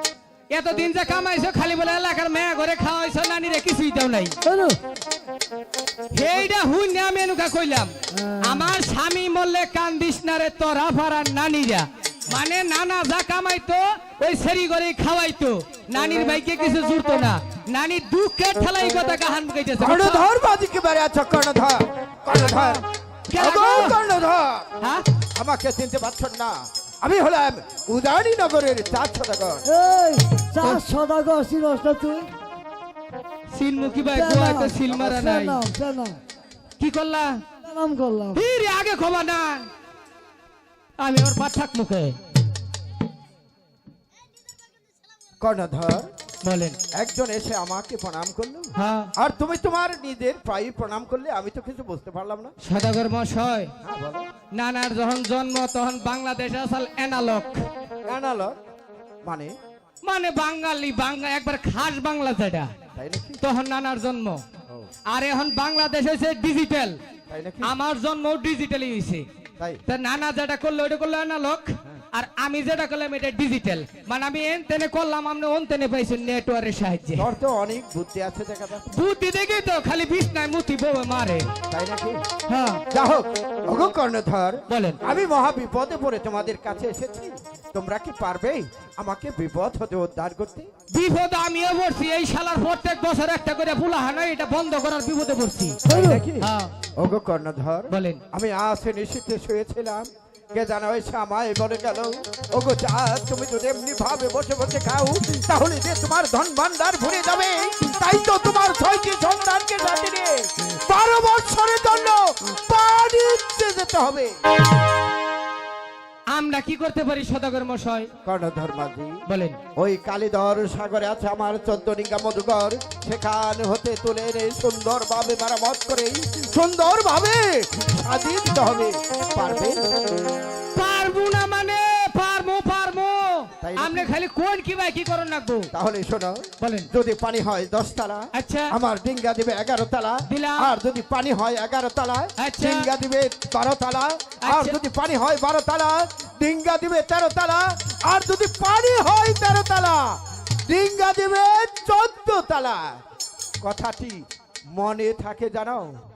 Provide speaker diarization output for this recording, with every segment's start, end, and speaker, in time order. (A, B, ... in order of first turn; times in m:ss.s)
0:00.5-0:04.3 A
0:04.4-0:04.8 B
0:06.1-0:07.9 A
0:08.1-0:08.7 B
0:08.4-0:20.3 A
0:19.8-0:22.8 C
0:22.3-0:24.0 A
0:23.4-0:24.7 C
0:24.8-0:25.0 A
0:25.4-0:29.6 C
0:29.6-0:32.3 B
0:33.5-0:35.6 A
0:34.1-0:36.2 B
0:36.8-0:37.4 A
0:37.6-0:38.4 B
0:38.3-0:39.7 A
0:41.0-0:42.2 A
0:45.4-0:46.1 C
0:46.4-0:46.8 A
0:46.9-0:52.5 C
0:48.8-0:49.1 A
0:52.6-0:53.7 A
0:53.8-0:54.3 C
0:54.6-0:57.6 A
0:58.1-0:58.6 C
0:59.2-0:59.5 C
1:00.0-1:02.7 A
1:03.0-1:03.4 C
1:03.4-1:04.4 A
1:05.1-1:07.0 A
1:07.3-1:07.7 C
1:07.6-1:09.3 A
1:09.9-1:17.3 A
1:17.2-1:18.8 C
1:18.9-1:21.5 A
1:21.7-1:22.2 C
1:22.5-1:22.8 A
1:22.9-1:30.7 C
1:24.7-1:25.0 A
1:30.9-1:35.8 A
1:35.9-1:36.2 B
1:35.9-1:54.4 C
1:36.4-1:36.7 A
1:37.9-1:38.2 A
1:56.3-1:58.1 A
1:58.2-1:59.2 C
1:59.3-1:59.6 A
1:59.8-2:09.9 C
2:10.7-2:15.7 A
2:13.6-2:14.1 C
2:15.7-2:30.2 C
2:16.6-2:16.9 A
2:18.4-2:18.7 A
2:20.3-2:20.7 A
2:22.4-2:22.9 A
2:24.4-2:24.8 A
2:30.7-2:33.0 C
2:33.6-2:36.0 C